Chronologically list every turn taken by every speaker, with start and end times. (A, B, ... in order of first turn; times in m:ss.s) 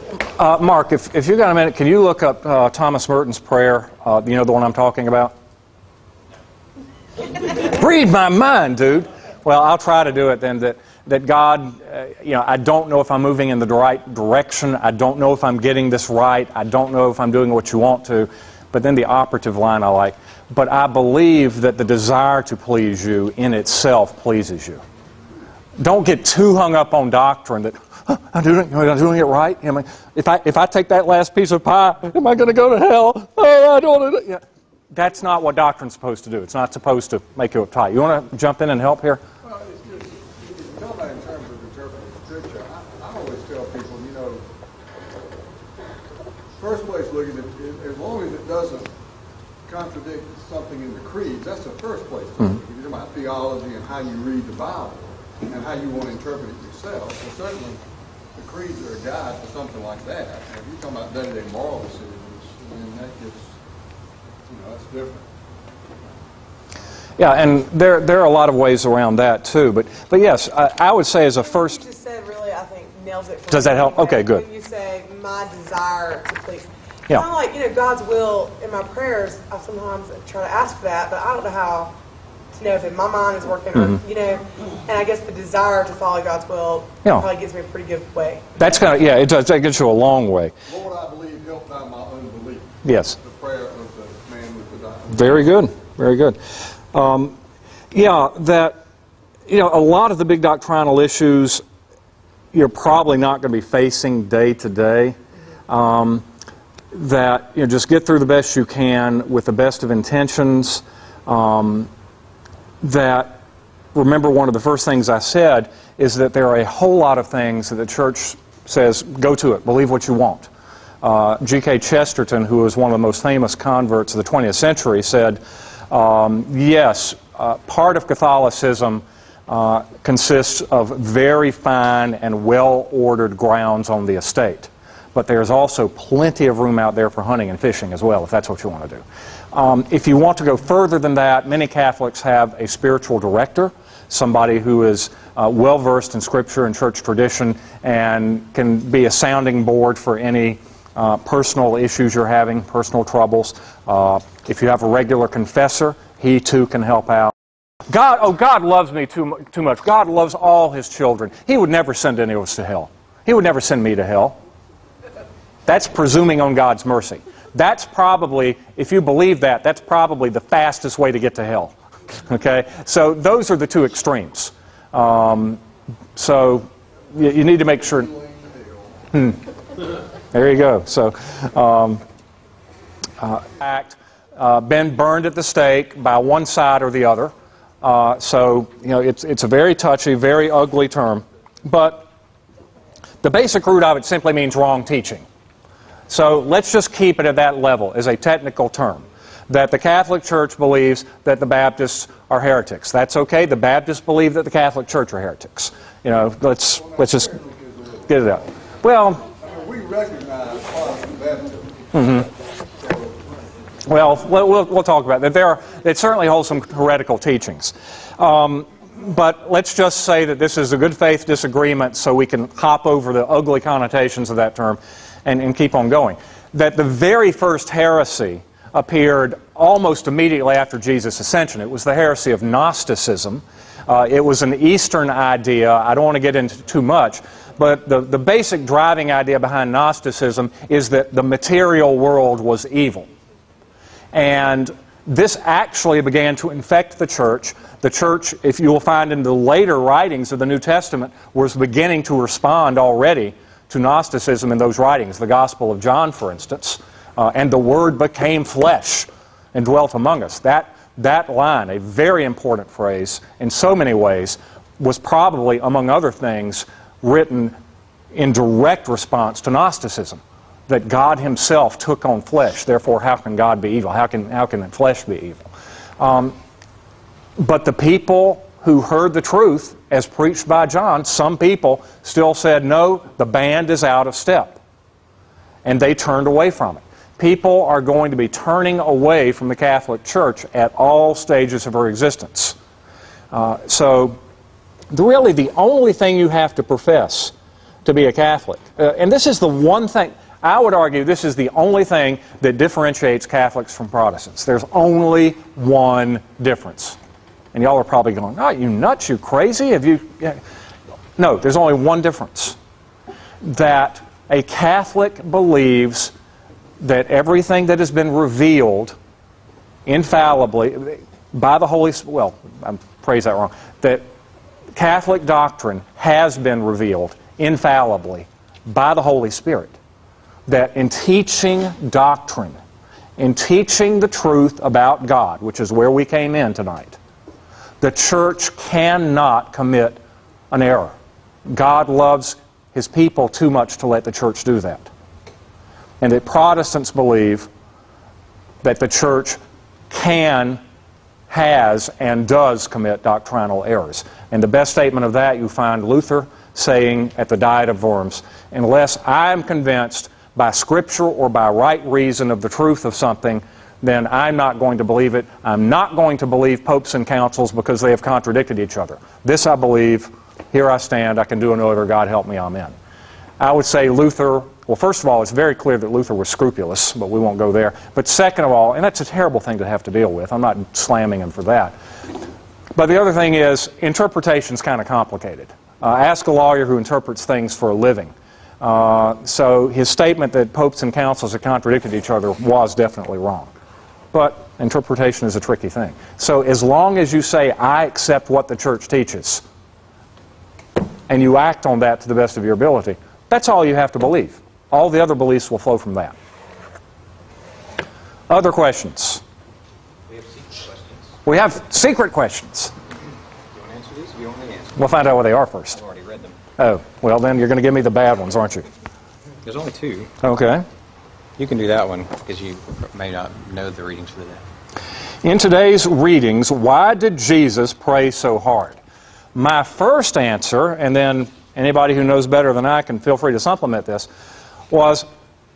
0:00.3-0:05.3 A
0:07.5-0:24.8 A
0:25.8-0:39.2 A
0:39.4-0:44.4 B
0:46.6-0:48.9 B
0:49.7-0:57.8 B
0:58.4-1:03.6 B
1:04.5-1:05.3 B
1:07.2-1:11.8 A
1:11.4-1:22.0 C
1:13.5-1:14.4 A
1:22.5-1:28.5 C
1:28.6-1:30.5 A
1:30.7-1:35.4 B
1:32.8-1:33.2 A
1:35.1-1:36.4 A
1:36.9-1:37.4 A
1:37.9-1:38.8 A
1:39.5-1:41.6 A
1:42.5-1:45.2 A
1:45.7-1:46.2 A
1:46.9-1:51.9 A
1:52.8-1:53.4 A
1:53.9-2:00.5 A
2:01.0-2:37.3 A
2:37.9-2:44.4 A
2:45.7-2:51.8 A
2:52.3-2:55.6 A
2:56.2-2:58.1 A
2:57.2-2:59.1 B
2:59.1-2:59.4 A
3:00.3-3:02.0 A
3:03.2-3:12.1 A
3:13.2-3:15.2 A
3:16.1-3:27.4 A
3:26.7-3:28.4 B
3:28.1-3:29.2 A
3:29.3-3:33.3 B
3:31.9-3:32.3 A
3:33.9-4:03.1 A
4:04.1-4:27.6 A
4:28.1-4:35.4 A
4:36.0-4:36.4 A
4:37.4-4:44.6 A
4:45.6-4:52.6 A
4:53.3-4:54.2 A
4:54.9-4:57.3 A
4:57.8-5:07.0 A
5:07.5-5:10.4 A
5:11.2-5:12.6 A
5:13.4-5:16.1 A
5:16.8-5:19.0 A
5:19.9-5:24.0 A
5:24.8-5:29.8 A
5:30.5-5:32.6 A
5:33.2-5:37.0 A
5:37.8-5:40.0 A
5:40.5-5:40.9 A
5:41.5-5:44.9 A
5:46.0-5:47.5 A
5:48.6-5:49.4 A
5:49.9-5:50.6 A
5:51.3-6:12.8 A
6:13.4-6:21.8 A
6:22.8-6:33.5 A
6:34.1-6:39.4 A
6:41.1-6:46.2 A
6:48.3-6:49.2 A
6:50.1-6:51.1 D
6:51.3-6:52.7 A
6:53.5-6:55.0 D
6:54.8-6:55.8 A
6:55.7-6:56.4 D
6:56.6-6:58.7 A
6:59.4-7:00.1 D
7:00.2-7:00.6 A
7:01.4-7:04.5 D
7:05.2-7:08.8 A
7:09.4-7:14.1 A
7:14.7-7:15.1 A